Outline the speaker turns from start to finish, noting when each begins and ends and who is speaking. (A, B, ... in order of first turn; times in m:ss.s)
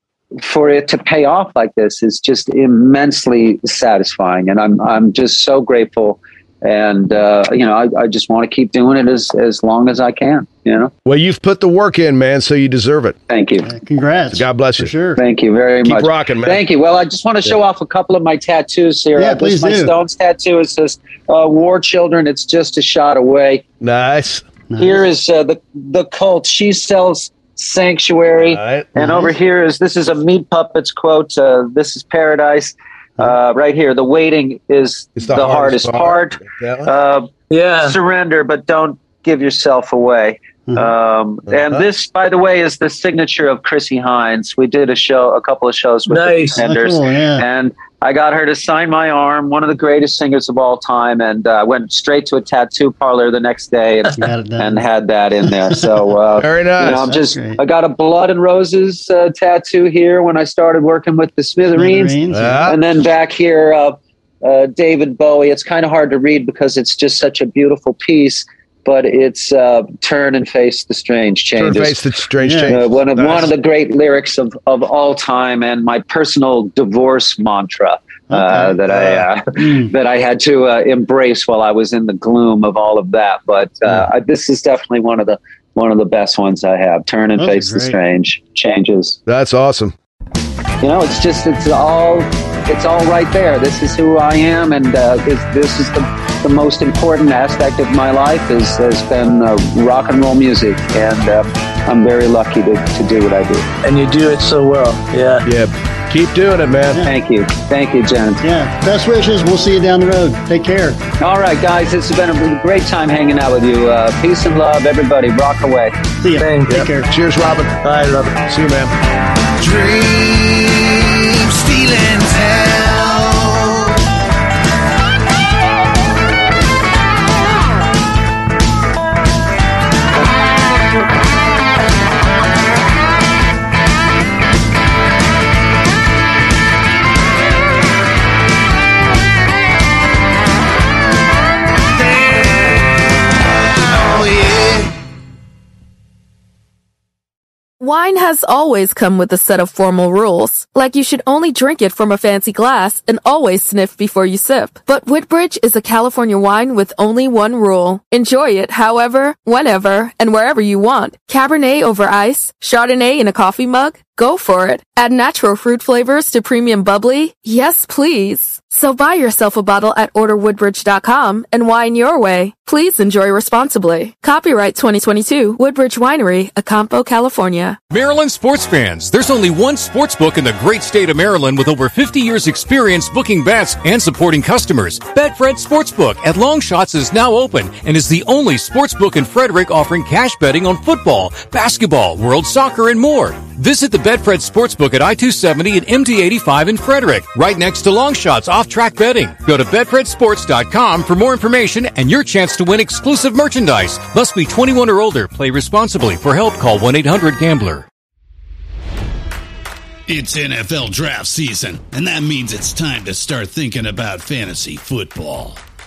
0:00.4-0:10.9 A
0:11.0-0:13.2 B
0:13.3-0:13.7 A
0:13.6-0:15.2 C
0:14.3-0:14.9 B
0:15.2-0:23.6 A
0:15.8-0:16.6 B
0:19.2-0:19.9 C
0:23.8-0:24.5 B
0:24.7-0:25.0 C
0:24.8-0:37.3 A
0:28.4-0:28.9 B
0:29.0-0:29.3 C
0:35.2-0:36.9 B
0:37.5-0:38.0 D
0:37.8-1:12.0 A
0:41.5-0:41.8 B
0:46.1-0:46.6 D
0:46.6-0:47.4 C
0:54.2-0:54.8 C
0:55.4-0:56.0 C
0:56.4-0:57.1 B
0:56.9-0:57.6 C
1:01.7-1:02.7 C
1:02.3-1:02.8 B
1:11.6-1:13.5 B
1:12.4-1:12.8 C
1:12.7-1:29.2 A
1:18.3-1:18.8 C
1:19.6-1:19.9 C
1:27.4-1:28.0 C
1:29.3-1:29.9 B
1:30.8-1:43.7 A
1:43.8-1:45.4 D
1:45.4-1:47.0 B
1:47.0-1:48.4 A
1:48.4-1:51.0 C
1:51.2-1:55.9 A
1:56.2-1:57.1 C
1:56.4-1:56.8 D
1:56.7-1:57.8 B
1:57.8-1:58.4 D
1:58.5-1:58.9 B
1:59.6-2:03.7 B
2:27.8-2:57.8 E
2:57.9-3:27.9 F
3:30.1-3:35.6 G